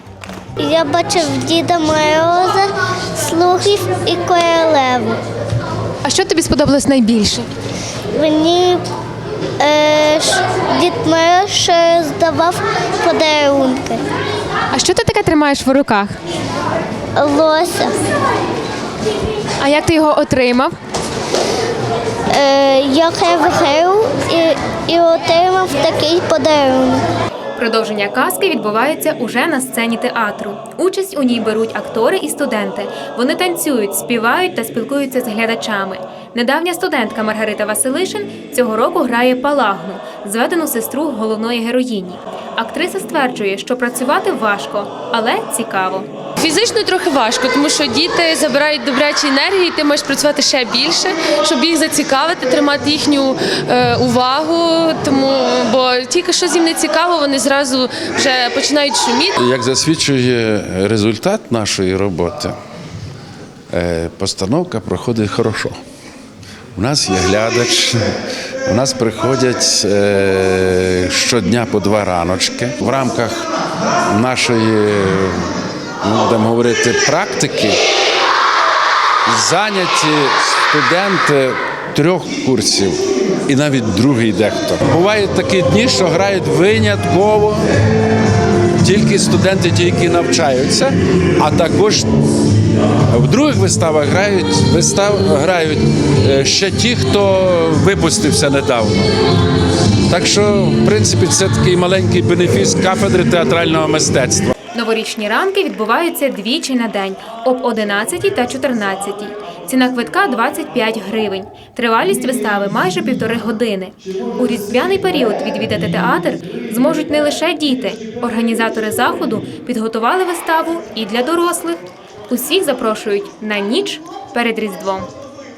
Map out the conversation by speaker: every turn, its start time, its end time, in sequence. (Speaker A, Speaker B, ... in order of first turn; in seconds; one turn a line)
Speaker A: 0.6-5.2
Speaker B: 6.1-7.5
Speaker A: 8.1-8.9
Speaker A: 9.6-14.1
Speaker B: 14.7-16.1
Speaker A: 17.1-18.0
Speaker B: 19.6-20.7
Speaker A: 22.3-27.1
Speaker B: 27.6-46.1
Speaker C: 46.4-59.3
Speaker D: 59.4-62.5
Speaker D: 63.7-65.8
Speaker D: 66.8-68.0
Speaker D: 68.7-73.5
Speaker D: 74.0-77.8
Speaker D: 79.3-87.6
Speaker D: 88.8-92.1
Speaker D: 93.1-99.1
Speaker D: 100.1-104.5
Speaker B: 104.7-125.1